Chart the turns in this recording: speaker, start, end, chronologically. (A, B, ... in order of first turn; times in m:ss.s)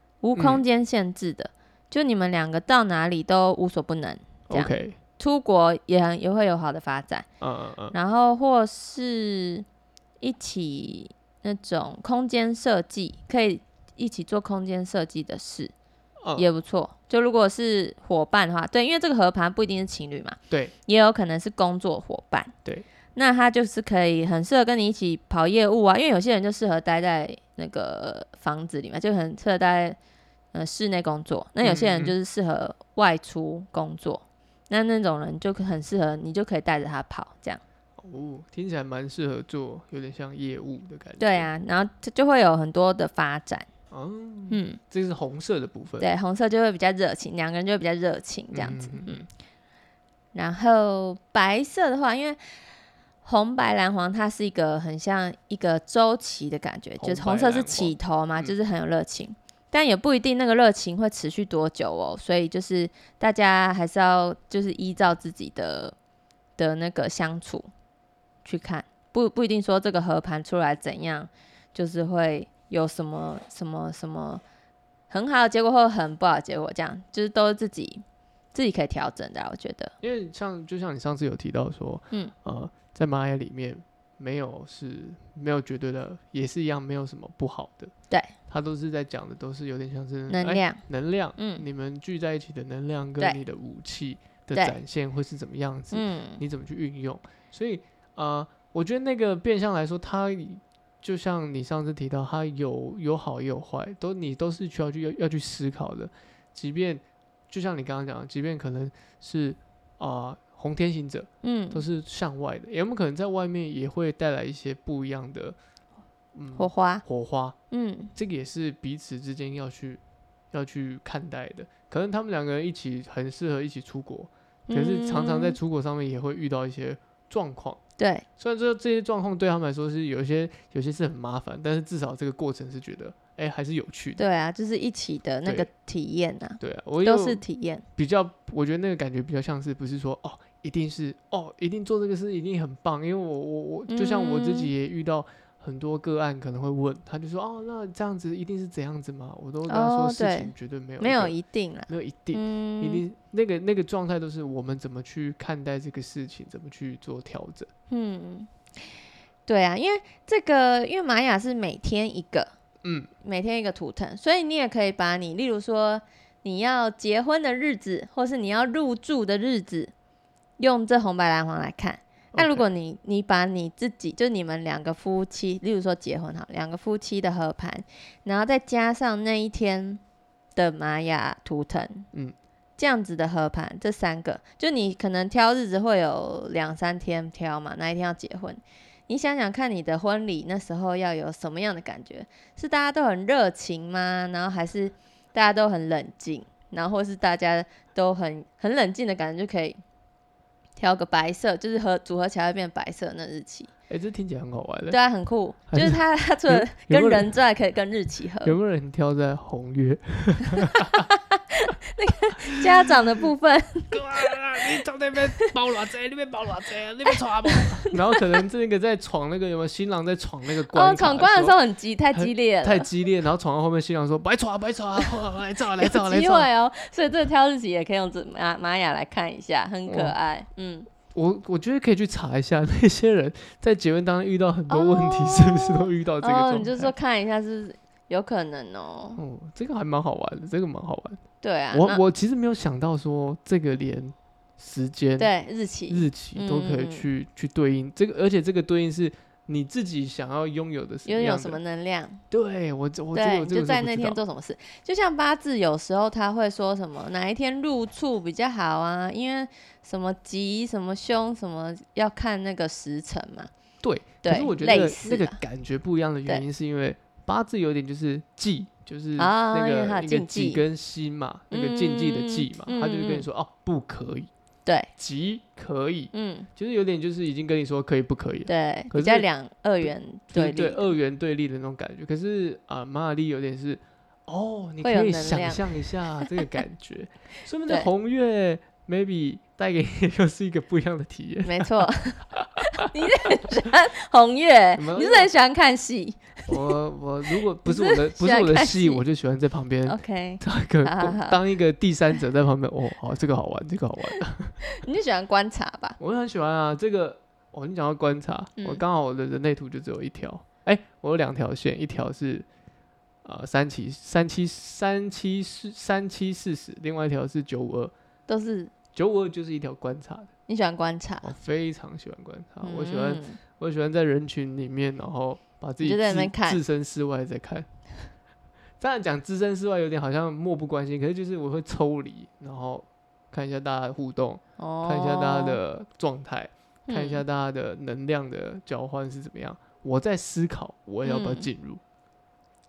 0:00.2-0:07.3 A
0:00.4-0:00.6 B
0:04.5-0:05.0 B
0:07.4-0:08.0 B
0:07.9-0:09.7 A
0:10.2-0:15.7 A
0:16.4-0:22.5 A
0:23.2-0:30.0 A
0:30.5-0:37.6 A
0:31.6-0:32.2 B
0:38.0-0:41.5 B
0:41.2-0:43.7 A
0:43.9-0:46.1 B
0:44.5-0:44.8 A
0:46.0-0:49.2 A
0:48.5-0:49.3 B
0:50.3-0:52.4 A
0:53.2-1:06.0 A
0:57.0-0:58.5 B
1:06.6-1:07.7 A
1:08.4-1:14.4 A
1:15.1-1:19.9 A
1:20.0-1:27.9 B
1:28.5-1:55.6 B
1:30.3-1:30.8 A
1:31.4-1:31.6 A
1:35.9-1:36.4 A
1:51.4-1:51.8 A
1:56.3-1:57.6 B
1:56.6-1:57.0 A
1:57.7-1:58.1 A
1:58.2-2:07.8 B
2:04.7-2:05.6 A
2:08.0-2:08.2 A
2:08.4-2:14.2 B
2:14.2-2:17.8 A
2:16.6-2:17.4 B
2:18.0-2:31.4 B
2:23.9-2:24.7 A
2:29.7-2:33.0 A
2:31.9-2:37.7 B
2:37.9-2:42.5 A
2:42.8-2:43.1 B
2:43.2-2:49.9 A
2:50.6-3:00.0 A
2:52.3-2:52.7 B
3:00.6-3:02.1 A
3:02.8-3:19.8 A
3:20.8-3:23.7 A
3:23.9-3:25.0 B
3:24.9-3:28.6 A
3:25.7-3:27.3 B
3:28.4-3:31.1 B
3:30.8-3:34.3 A
3:32.5-3:33.0 B
3:33.9-3:41.6 B
3:37.1-3:38.0 A
3:40.7-3:42.9 A
3:42.1-3:46.5 B
3:45.8-3:50.9 A
3:49.9-3:50.2 B
3:51.1-3:56.9 B
3:54.7-3:59.2 A
3:59.2-4:01.2 B
4:01.4-4:02.0 A
4:01.7-4:05.3 B
4:05.2-4:07.1 A
4:05.9-4:11.6 B
4:11.1-4:12.2 A
4:12.3-4:14.2 B
4:13.1-4:23.5 A
4:23.8-4:34.3 B
4:24.2-4:25.4 A
4:29.2-4:30.6 A
4:31.5-4:33.3 A
4:35.0-4:39.3 B
4:36.1-4:36.5 A
4:38.5-4:40.9 A
4:39.8-4:52.9 B
4:44.8-4:45.6 A
4:51.4-4:56.7 A
4:54.8-4:55.3 B
4:56.5-5:04.6 B
4:57.7-4:59.0 A
4:59.9-5:01.4 A
5:04.7-5:06.0 A
5:06.0-5:12.5 B
5:08.6-5:08.8 A
5:13.2-5:17.9 B
5:18.3-5:18.7 A
5:18.9-5:20.3 B
5:20.5-5:21.3 A
5:21.2-5:27.7 B
5:22.6-5:23.4 A
5:25.8-5:26.6 A
5:28.8-5:41.8 B
5:34.6-5:35.6 A
5:36.9-5:37.2 A
5:41.0-5:41.5 A